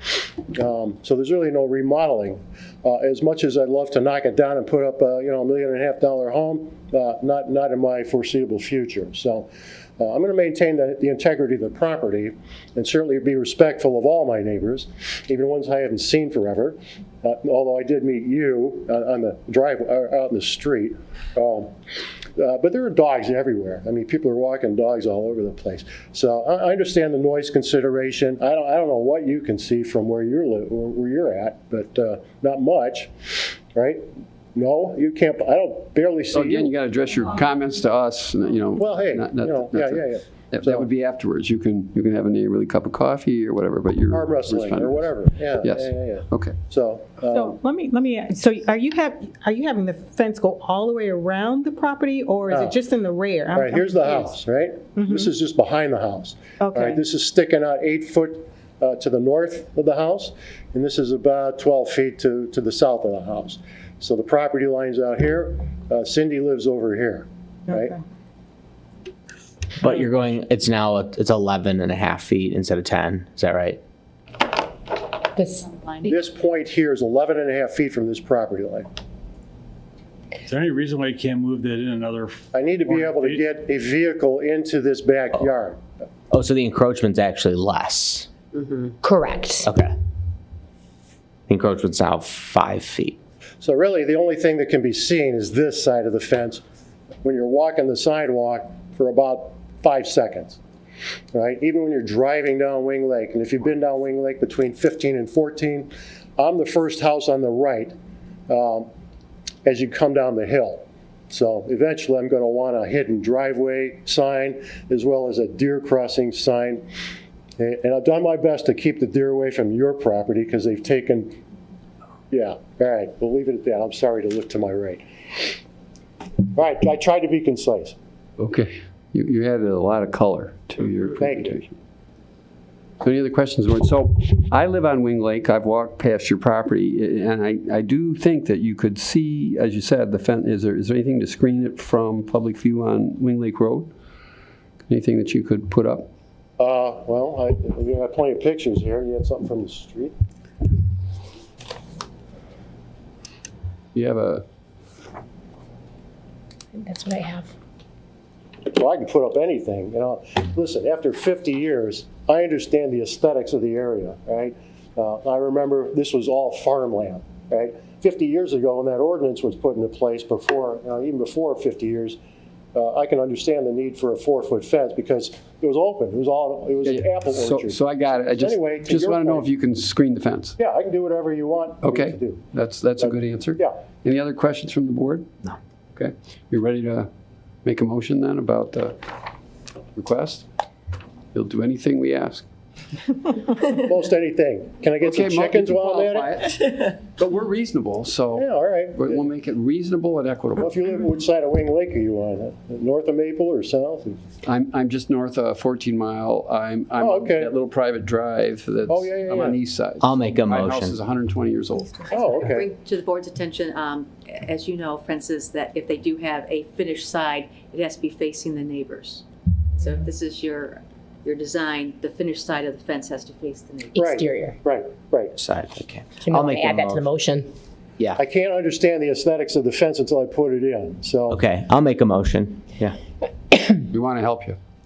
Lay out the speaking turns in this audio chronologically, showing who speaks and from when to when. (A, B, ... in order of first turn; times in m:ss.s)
0:00.5-0:09.5 A
0:10.0-0:21.7 A
0:22.4-0:36.7 A
0:36.3-0:46.6 B
0:38.8-0:40.9 A
0:44.1-0:47.6 A
0:47.3-0:54.3 C
0:52.5-0:52.8 A
0:53.5-1:08.0 A
0:55.0-0:55.3 C
0:56.6-0:57.0 C
1:09.8-1:13.8 D
1:15.4-1:15.7 E
1:15.6-1:16.1 F
1:16.0-1:18.8 A
1:20.5-1:23.4 G
1:22.5-1:25.8 A
1:26.3-1:28.3 D
1:29.0-1:29.7 E
1:29.6-1:29.9 D
1:31.5-1:33.2 D
1:33.6-1:36.6 A
1:37.2-1:40.6 A
1:41.3-1:47.9 A
1:48.5-1:48.9 A
1:49.6-1:56.8 A
1:57.6-2:01.4 A
2:02.3-2:05.0 A
2:06.5-2:07.9 A
2:08.4-2:11.8 B
2:11.2-2:11.6 A
2:13.0-2:23.9 B
2:24.9-2:26.1 B
2:26.6-2:30.1 A
2:33.9-2:34.4 B
2:36.7-2:37.5 E
2:38.7-2:52.2 A
2:52.7-2:59.5 A
2:56.8-3:00.6 B
3:00.6-3:02.4 A
3:01.8-3:07.1 B
3:03.0-3:03.8 A
3:07.6-3:09.1 B
3:09.9-3:10.5 B
3:11.3-3:12.4 B
3:13.6-3:16.3 A
3:15.0-3:20.7 B
3:18.4-3:19.3 A
3:20.6-3:24.2 A
3:24.4-3:32.1 B
3:27.0-3:27.5 A
3:28.9-3:29.6 A
3:30.0-3:31.0 D
3:32.1-3:32.7 A
3:32.1-3:39.2 F
3:39.8-3:44.2 F
3:44.0-3:44.6 E
3:44.0-3:45.3 A
3:45.4-3:47.1 D
3:46.2-3:47.5 E
3:48.2-3:51.4 A
3:51.3-3:53.0 D
3:53.9-3:54.6 B